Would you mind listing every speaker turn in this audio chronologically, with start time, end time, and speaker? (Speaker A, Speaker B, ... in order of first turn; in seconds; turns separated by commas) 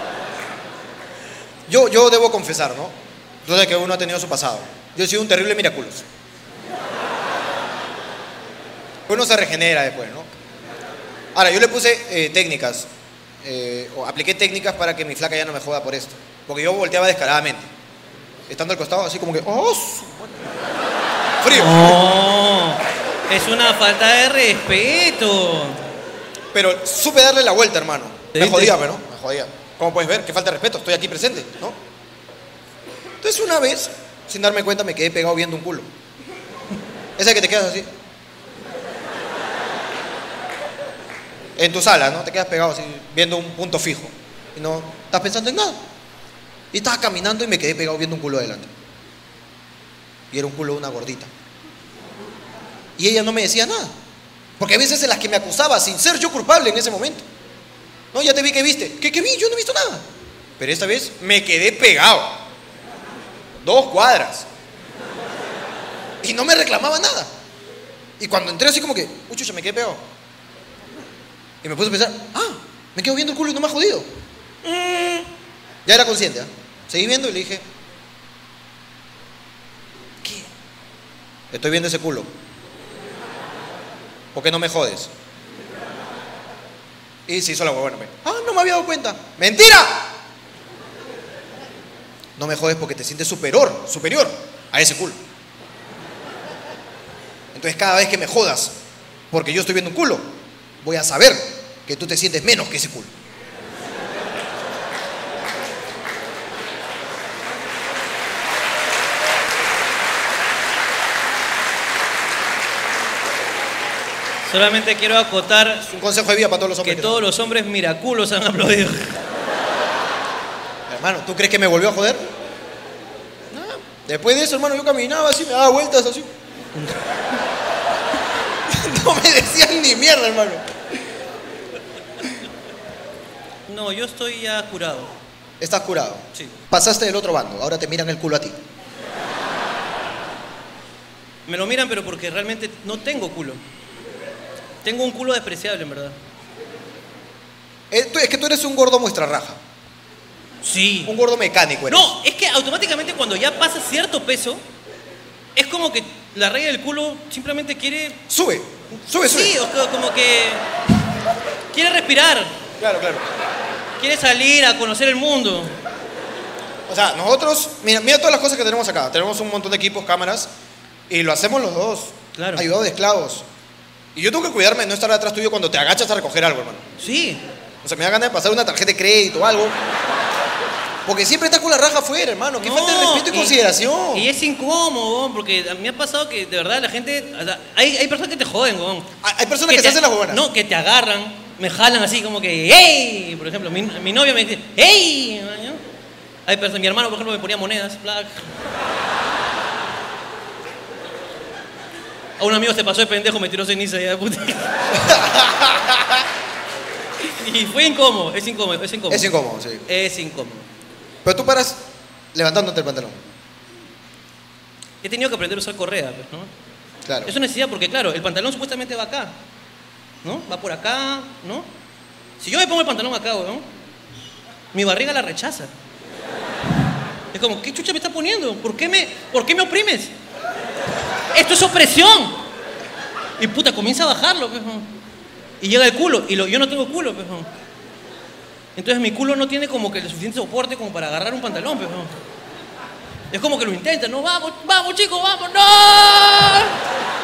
Speaker A: 1.7-6.0, Speaker A: 9.1-10.3, Speaker A: 11.3-12.9, Speaker A: 13.4-17.7, Speaker A: 18.5-20.5, Speaker A: 21.4-22.0, Speaker B: 21.5-25.8, Speaker A: 26.5-31.8, Speaker B: 28.3-28.8, Speaker A: 33.2-35.9, Speaker A: 37.2-37.9, Speaker A: 41.6-45.8, Speaker A: 46.7-48.7, Speaker A: 50.3-51.3, Speaker A: 53.0-53.9, Speaker A: 54.6-57.2, Speaker A: 58.1-60.0, Speaker A: 60.6-62.4, Speaker A: 63.6-64.5, Speaker A: 66.2-67.3, Speaker A: 68.2-70.0, Speaker A: 71.6-74.1, Speaker A: 74.6-75.3, Speaker A: 75.8-77.6, Speaker A: 81.5-82.3, Speaker A: 84.3-85.1, Speaker A: 87.3-90.1, Speaker A: 92.4-95.2, Speaker A: 97.5-98.8, Speaker A: 99.3-103.1, Speaker B: 114.5-115.9, Speaker A: 115.9-117.2, Speaker B: 116.8-119.2, Speaker A: 120.9-122.3, Speaker A: 123.5-126.3, Speaker A: 128.7-130.6, Speaker B: 133.7-135.1, Speaker A: 135.6-138.6, Speaker B: 141.5-143.6, Speaker B: 144.8-146.2, Speaker A: 147.9-149.6, Speaker B: 150.6-151.1, Speaker A: 151.1-152.1, Speaker B: 151.9-154.6, Speaker B: 155.6-158.2, Speaker A: 158.3-159.6, Speaker B: 159.2-160.6, Speaker B: 161.7-162.5, Speaker A: 162.8-163.3, Speaker B: 164.0-165.8, Speaker A: 166.9-170.5, Speaker A: 171.1-173.4, Speaker B: 172.3-172.7, Speaker A: 174.1-176.9, Speaker B: 177.0-177.4, Speaker A: 177.8-179.8, Speaker A: 181.1-184.3, Speaker B: 182.6-183.6, Speaker B: 184.1-189.1, Speaker A: 189.2-190.4, Speaker B: 189.7-195.8, Speaker B: 196.5-198.4, Speaker B: 202.4-204.7, Speaker A: 205.0-206.0, Speaker B: 207.2-209.3, Speaker A: 209.1-209.8, Speaker B: 209.9-210.7, Speaker A: 211.2-211.8, Speaker A: 212.3-213.2, Speaker B: 215.0-216.5, Speaker A: 217.0-217.3, Speaker B: 217.2-219.3, Speaker B: 220.2-221.7, Speaker B: 222.4-223.6, Speaker B: 224.7-225.7, Speaker B: 227.3-230.1, Speaker B: 231.3-232.4, Speaker B: 233.4-234.9, Speaker B: 235.6-237.5, Speaker B: 238.8-242.2, Speaker B: 243.3-246.8